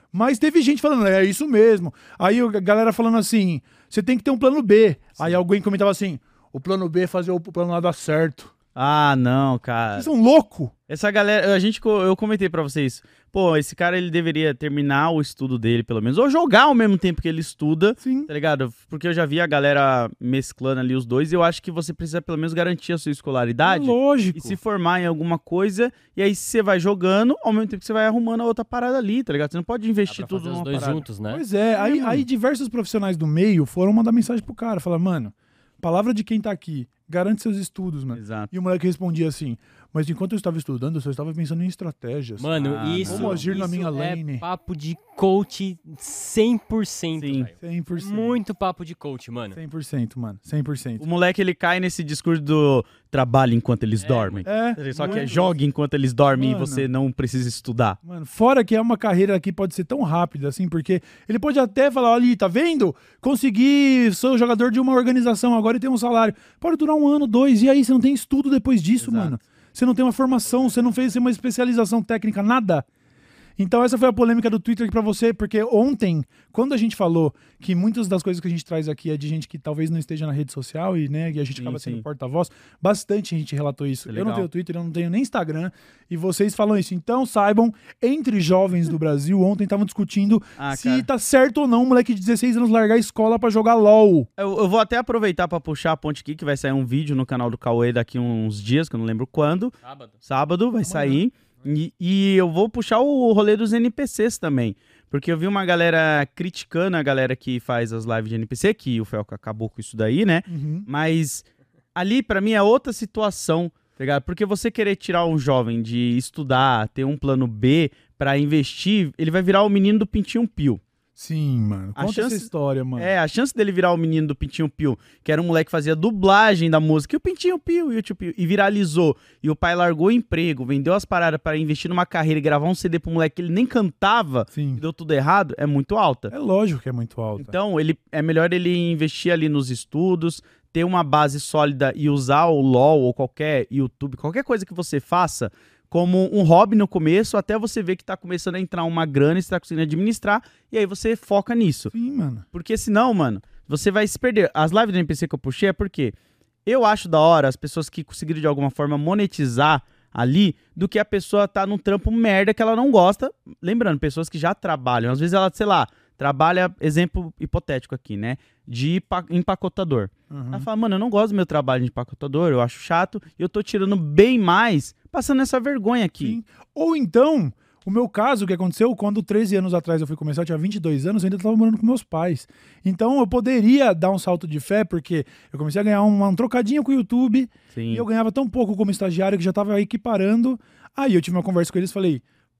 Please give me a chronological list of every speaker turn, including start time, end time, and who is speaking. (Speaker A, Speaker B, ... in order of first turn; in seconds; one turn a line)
Speaker A: 0.1-8.5
Speaker B: 8.8-10.1
Speaker A: 9.9-10.7
Speaker B: 10.9-31.0
Speaker A: 18.0-18.3
Speaker A: 23.6-24.6
Speaker C: 30.1-31.4
Speaker A: 31.3-42.5
Speaker B: 31.8-32.2
Speaker B: 38.1-38.5
Speaker C: 42.4-49.6
Speaker B: 42.5-43.6
Speaker A: 43.0-44.4
Speaker B: 47.2-47.5
Speaker A: 47.6-48.4
Speaker A: 49.5-51.0
Speaker B: 51.0-58.0
Speaker C: 54.0-55.5
Speaker A: 54.4-55.5
Speaker A: 56.3-56.9
Speaker A: 58.0-72.8
Speaker B: 69.0-69.4
Speaker C: 70.4-71.1
Speaker A: 73.6-94.3
Speaker B: 81.6-82.0
Speaker B: 84.1-84.5
Speaker B: 90.6-91.1
Speaker B: 94.4-120.8
Speaker C: 99.8-100.2
Speaker A: 100.8-101.2
Speaker A: 110.5-110.9
Speaker A: 121.2-123.1
Speaker B: 122.0-136.3
Speaker A: 134.5-134.8
Speaker A: 136.3-137.6
Speaker B: 137.4-151.9
Speaker A: 151.9-152.4
Speaker B: 152.5-156.1
Speaker B: 156.7-176.4
Speaker A: 170.3-170.7
Speaker A: 176.2-192.2
Speaker B: 187.7-188.1